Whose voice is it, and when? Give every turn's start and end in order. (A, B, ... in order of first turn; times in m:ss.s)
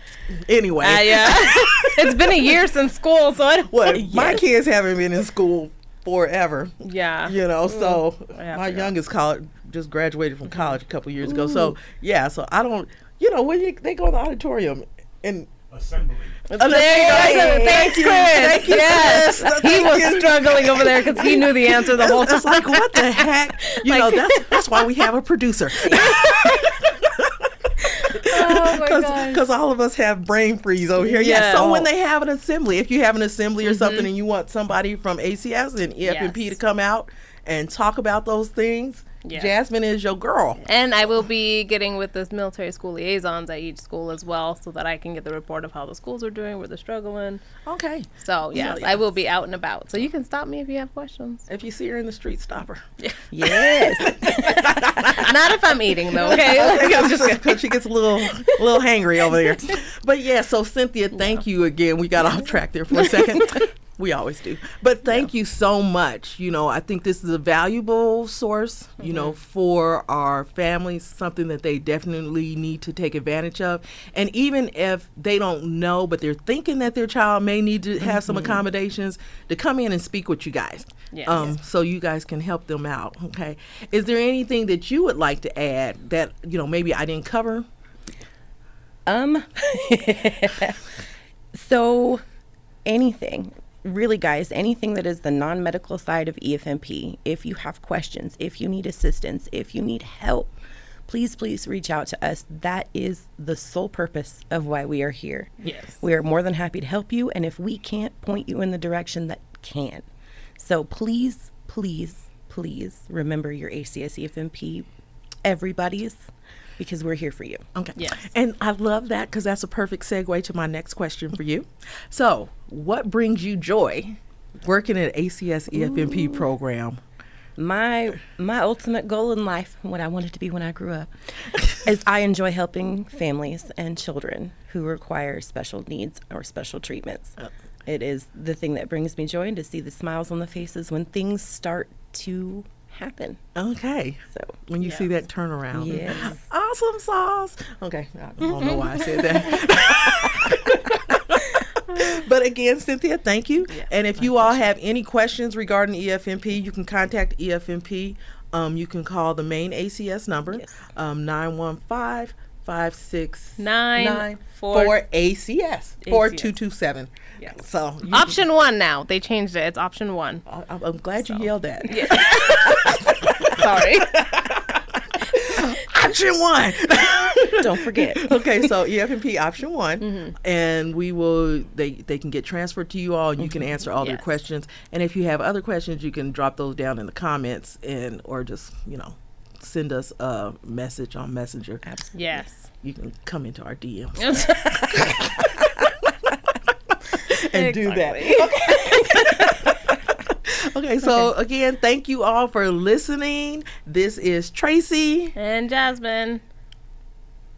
0:00.3-0:02.6 A
0:00.8-0:04.1 B
0:03.7-0:27.5 A
0:03.9-0:04.4 C
0:06.8-0:08.9 B
0:11.2-0:11.7 C
0:16.5-0:18.1 C
0:16.5-0:25.1 B
0:25.8-0:26.8 B
0:25.9-0:26.2 C
0:27.8-0:29.5 B
0:28.1-0:40.6 A
0:31.0-0:31.9 B
0:33.6-0:34.1 B
0:36.0-0:36.6 B
0:39.2-0:39.5 B
0:40.6-0:47.4 B
0:47.6-0:49.0 A
0:48.2-0:51.5 B
0:51.5-0:52.8 A
0:53.0-0:57.8 B
0:53.3-0:55.3 C
0:53.9-0:55.4 A
0:56.1-1:27.7 A
1:09.0-1:09.4 B
1:18.0-1:18.6 C
1:21.1-1:21.5 B
1:29.1-1:31.0 C
1:31.5-1:32.2 C
1:32.9-1:40.6 C
1:41.1-1:50.1 C
1:45.6-1:46.0 B
1:50.6-1:54.9 C
1:55.4-1:56.2 C
1:56.8-1:57.6 C
1:57.8-2:07.0 A
1:58.0-1:58.3 B
2:05.7-2:06.5 C
2:07.6-2:11.1 C
2:11.6-2:23.4 C
2:23.6-2:48.4 A
2:24.3-2:24.6 C
2:24.8-2:25.1 B
2:25.7-2:26.4 C
2:25.9-2:26.4 B
2:28.6-2:29.5 B
2:43.6-2:45.0 B
2:46.0-2:46.5 B
2:47.4-2:50.4 B
2:50.5-3:11.8 A
2:51.3-2:54.5 B
2:55.2-2:55.6 B
2:57.0-2:58.4 C
3:00.0-3:00.4 B
3:04.0-3:04.3 B
3:11.8-3:12.4 C
3:12.1-3:12.7 B
3:12.8-3:25.4 A
3:14.2-3:15.4 B
3:17.2-3:19.5 B
3:25.4-3:26.4 B